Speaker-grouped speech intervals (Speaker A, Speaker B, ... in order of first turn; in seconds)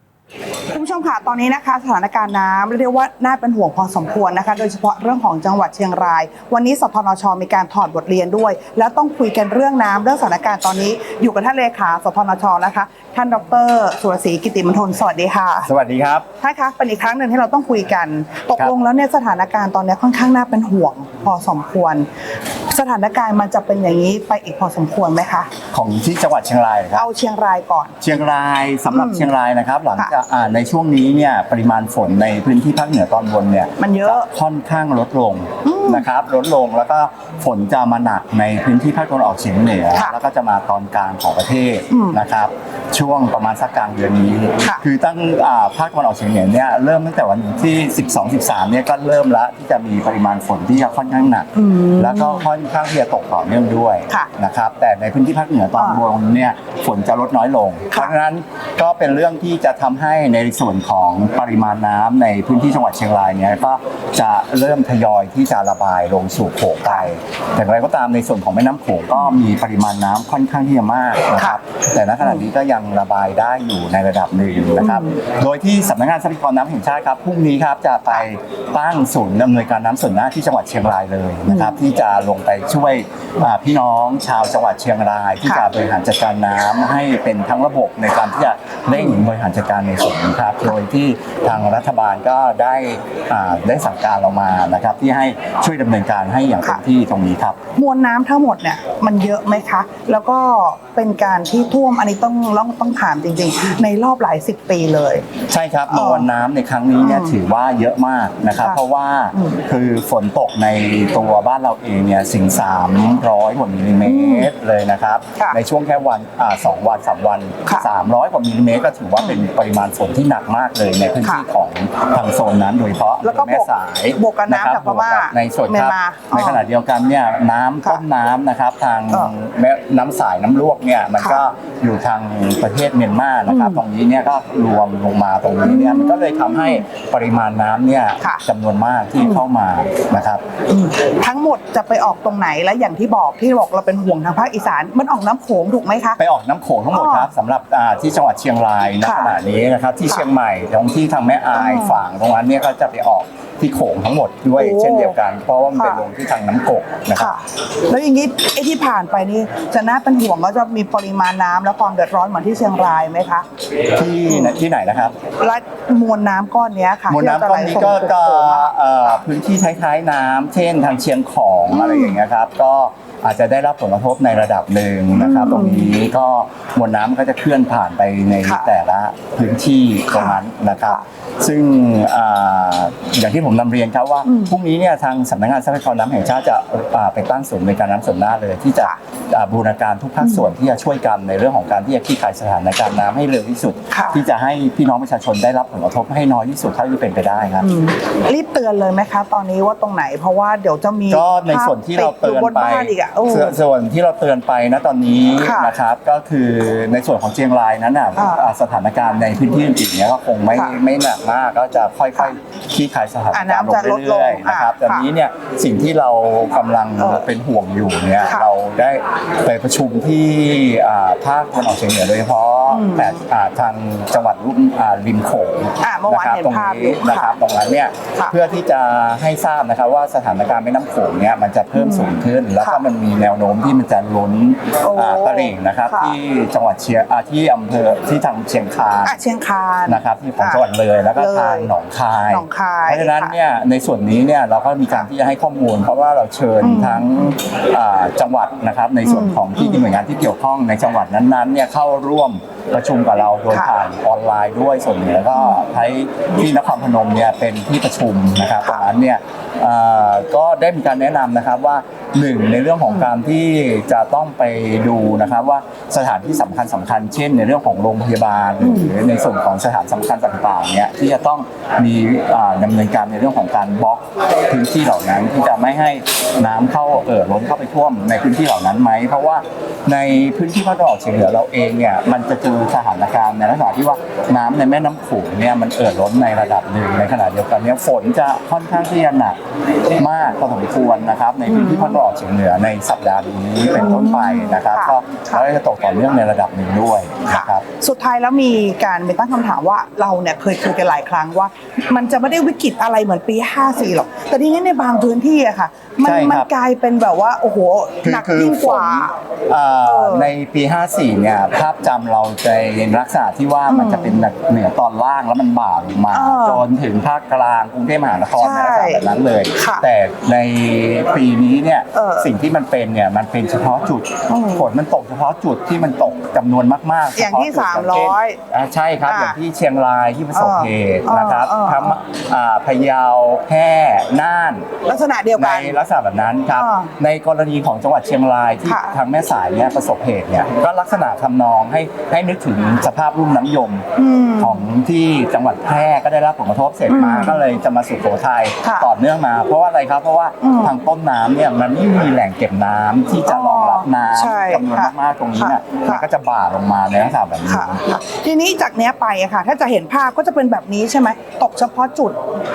Speaker A: 0.7-15.7, 16.4-22.1, 22.7-25.5, 26.9-28.0, 28.9-29.3, 33.8-34.3, 35.6-36.1, 41.9-42.2, 51.5-52.5, 55.8-56.0, 66.8-67.1, 74.8-75.1, 81.5-81.8, 97.8-105.3, 105.9-106.3, 107.0-107.3, 109.3-109.6, 114.0-114.5, 123.2-126.6, 133.5-133.8, 135.6-136.8, 140.7-146.2, 146.9-147.3, 149.0-149.4, 151.5-152.0, 154.6-155.2, 155.8-156.0, 157.2-163.5, 164.3-164.6, 165.4-168.7, 171.7-172.2, 175.1-175.9, 178.4-178.7, 180.1-181.0, 184.2-184.6, 190.2-190.5, 193.9-194.2, 197.6-203.6, 205.4-205.7, 208.2-208.5, 213.3-215.1, 217.0-217.3, 222.7-223.2, 225.8-227.4, 231.8-232.9, 234.8-236.2, 239.0-240.6, 241.2-241.7, 242.3-243.3, 246.6-247.3, 249.1-249.8, 255.3-255.6, 258.6-258.9, 268.6-268.9, 291.4-292.0, 293.8-295.4, 297.3-309.1, 309.8-310.3, 313.7-314.2, 316.1-316.6, 318.4-319.0, 319.5-319.9, 321.9-322.3, 324.3-324.7, 327.1-328.4, 329.1-329.4, 330.3-332.0, 334.9-335.8, 336.5-336.9, 338.7-338.9, 344.0-344.7, 346.9-347.4, 348.6-348.9, 350.4-350.8, 353.3-356.1, 357.5-362.2
Speaker B: 15.7-16.3, 25.7-27.1, 28.0-97.6, 105.5-140.4, 146.2-157.3, 164.0-165.2, 167.1-197.7, 201.1-239.2, 239.9-289.4, 289.9-297.6, 306.0-306.5, 308.0-334.7, 335.4-343.9, 344.4-357.8